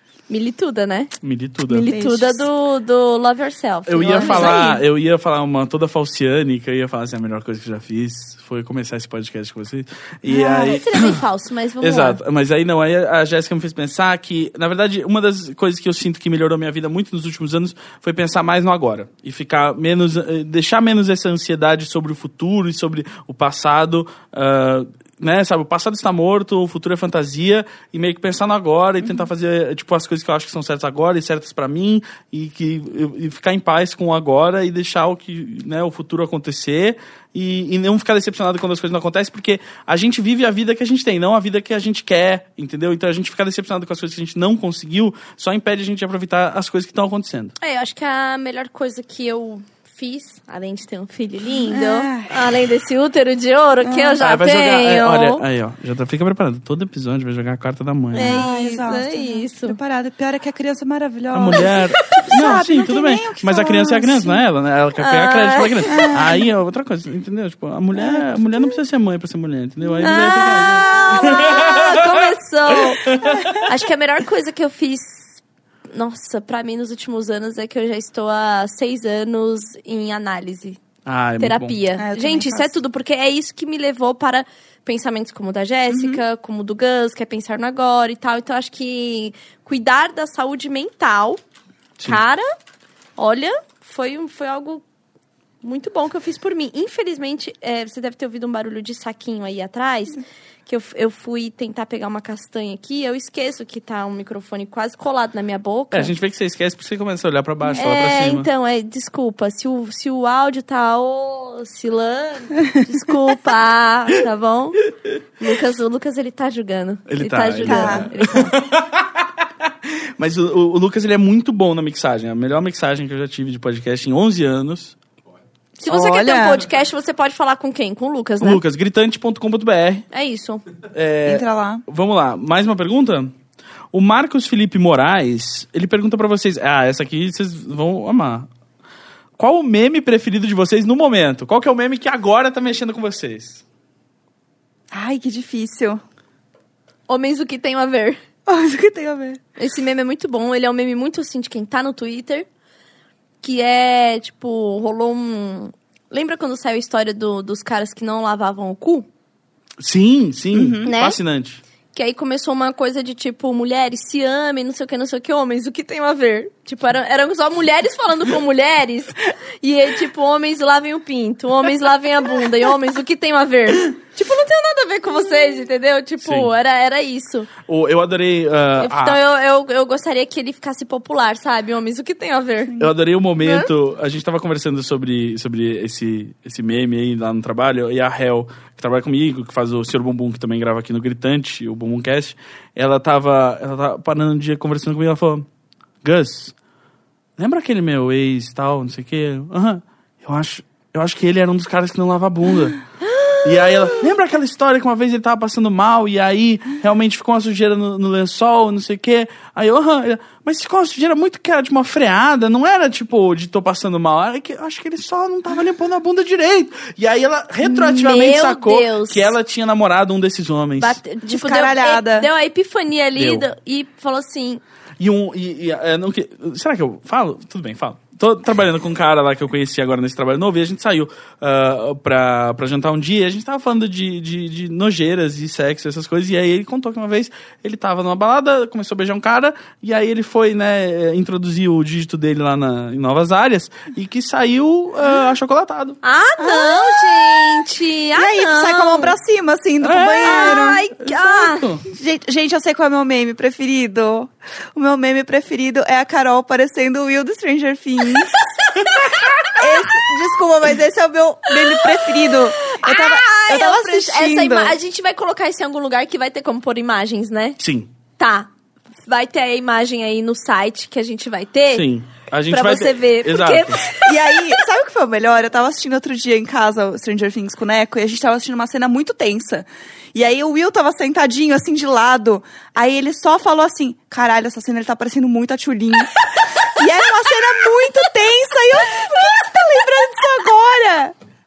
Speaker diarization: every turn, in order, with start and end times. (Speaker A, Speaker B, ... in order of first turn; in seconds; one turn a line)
Speaker A: 0.3-1.1
Speaker B: 1.2-1.9
Speaker A: 1.7-4.6
Speaker C: 1.7-2.5
Speaker B: 3.9-11.2
Speaker C: 4.0-4.8
Speaker C: 10.3-10.8
Speaker A: 10.6-12.2
Speaker B: 11.8-47.5
Speaker A: 47.6-55.4
Speaker C: 51.5-52.4
Speaker C: 53.8-54.2
Speaker B: 54.2-58.5
Speaker A: 58.1-59.8
Speaker C: 58.1-64.4
Speaker B: 61.3-73.6
Speaker A: 61.6-62.2
Speaker A: 65.0-66.1
Speaker C: 65.9-66.5
Speaker C: 69.8-70.2
Speaker A: 70.0-75.4
Speaker A: 75.9-80.8
Speaker B: 81.0-81.8
Speaker A: 81.4-91.4
Speaker C: 82.0-82.7
Speaker C: 85.9-86.2
Speaker A: 92.0-92.5
Speaker A: 93.2-94.8
Speaker A: 95.6-106.1
Speaker B: 105.9-108.5
Speaker A: 107.8-114.8
Speaker A: 115.4-118.6
Speaker B: 117.1-119.2
Speaker C: 117.6-118.1
Speaker B: 120.2-125.0
Speaker A: 125.8-128.6
Speaker C: 125.9-126.7
Speaker B: 128.4-130.1
Speaker A: 130.1-130.6
Speaker B: 130.9-133.3
Speaker C: 131.2-131.8
Speaker B: 133.9-138.5
Speaker B: 139.4-143.6
Speaker C: 144.9-146.0
Speaker A: 147.1-148.2
Speaker C: 148.4-149.4
Speaker A: 149.6-152.4
Speaker A: 153.4-159.1
Speaker B: 159.8-161.6
Speaker C: 160.5-160.9
Speaker A: 160.8-161.2
Speaker A: 161.9-177.5
Speaker B: 176.2-176.5
Speaker B: 177.7-179.2
Speaker A: 178.8-182.8
Speaker B: 182.8-195.4
Speaker A: 183.4-183.7
Speaker B: 196.0-196.6
Speaker B: 197.4-202.8
Speaker B: 203.4-221.0
Speaker A: 217.6-219.3
Speaker A: 220.8-224.6
Speaker C: 221.2-222.3
Speaker B: 223.2-223.4
Speaker B: 225.0-246.0
Speaker A: 246.0-249.1
Speaker C: 246.4-247.6
Speaker C: 248.1-250.8
Speaker B: 249.8-251.8
Speaker A: 250.2-251.7
Speaker C: 251.9-258.4
Speaker C: 259.6-264.8
Speaker A: 261.8-267.6
Speaker B: 267.6-267.9
Speaker A: 268.2-268.5
Speaker A: 269.1-271.9
Speaker B: 271.7-273.8
Speaker A: 272.5-274.6
Speaker C: 274.0-291.1